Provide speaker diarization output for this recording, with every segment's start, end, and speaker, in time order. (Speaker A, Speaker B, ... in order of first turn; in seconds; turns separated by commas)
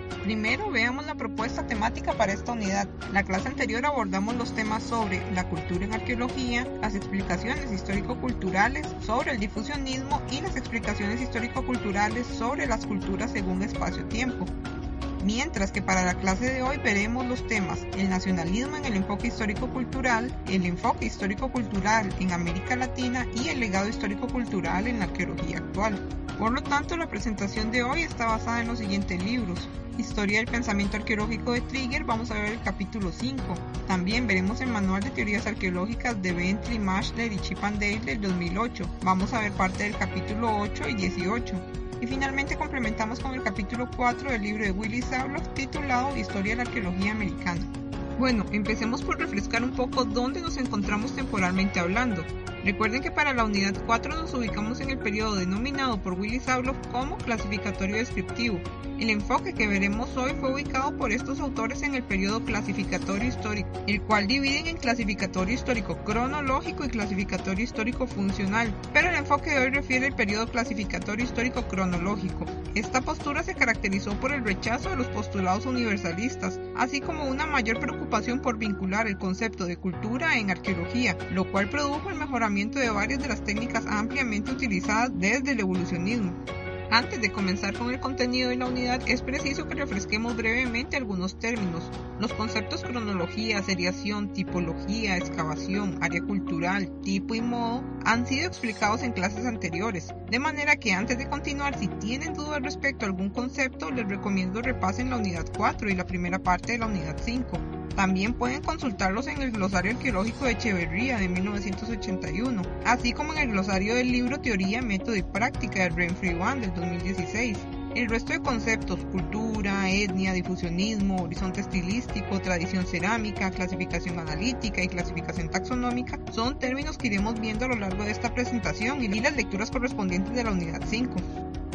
Speaker A: 0.2-14.5, Speaker A: 15.2-86.4, Speaker A: 86.9-131.2